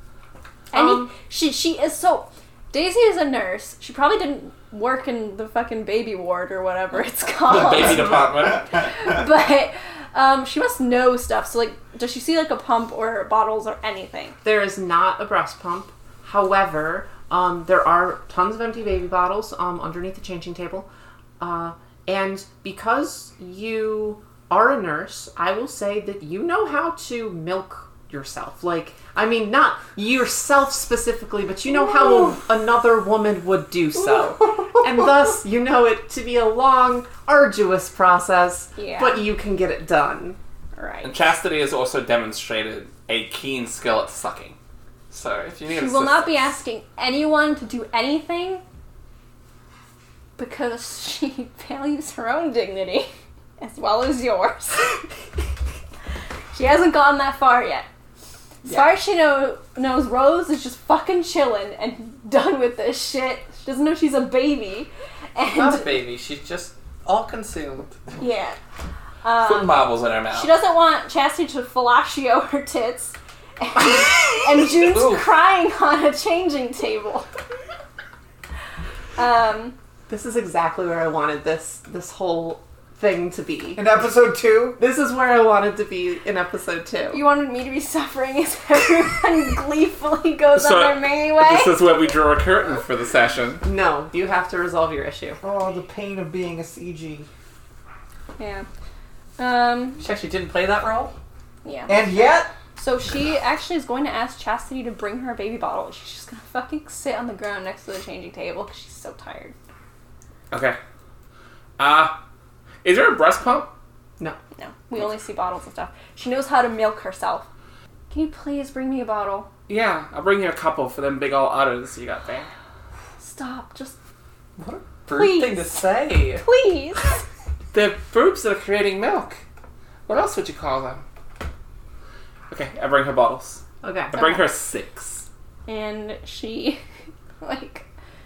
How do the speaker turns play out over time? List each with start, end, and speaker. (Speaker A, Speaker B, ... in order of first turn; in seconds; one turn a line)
Speaker A: 0.7-1.1
Speaker B: 0.7-14.3
Speaker C: 7.4-8.7
Speaker A: 14.4-20.9
Speaker A: 21.4-40.4
Speaker B: 38.8-39.2
Speaker B: 40.8-41.1
Speaker C: 41.0-44.6
Speaker C: 45.1-46.6
Speaker B: 45.7-48.6
Speaker B: 50.4-55.0
Speaker B: 56.5-57.9
Speaker B: 58.6-66.0
Speaker D: 65.5-68.2
Speaker B: 68.2-68.6
Speaker B: 69.2-77.3
Speaker C: 69.4-70.5
Speaker D: 74.8-75.2
Speaker B: 79.2-79.7
Speaker A: 80.1-84.0
Speaker E: 83.8-84.8
Speaker A: 84.8-87.2
Speaker B: 87.1-91.9
Speaker C: 90.5-93.6
Speaker A: 93.6-95.4
Speaker E: 95.4-97.3
Speaker B: 98.4-98.7
Speaker B: 99.4-100.0
Speaker D: 100.0-101.1
Speaker B: 101.6-102.1
Speaker E: 101.9-102.5
Speaker B: 102.7-109.5
Speaker C: 110.5-110.8
Speaker C: 111.8-112.2
Speaker C: 112.8-113.7
Speaker B: 114.6-117.5
Speaker B: 118.1-119.5
Speaker C: 119.7-122.5
Speaker B: 123.2-124.0
Speaker D: 124.6-126.4
Speaker B: 125.1-125.7
Speaker B: 126.4-127.2
Speaker C: 127.7-129.4
Speaker C: 130.1-131.0
Speaker C: 132.5-135.2
Speaker A: 133.8-134.2
Speaker B: 134.1-134.4
Speaker B: 135.7-136.8
Speaker B: 137.4-137.8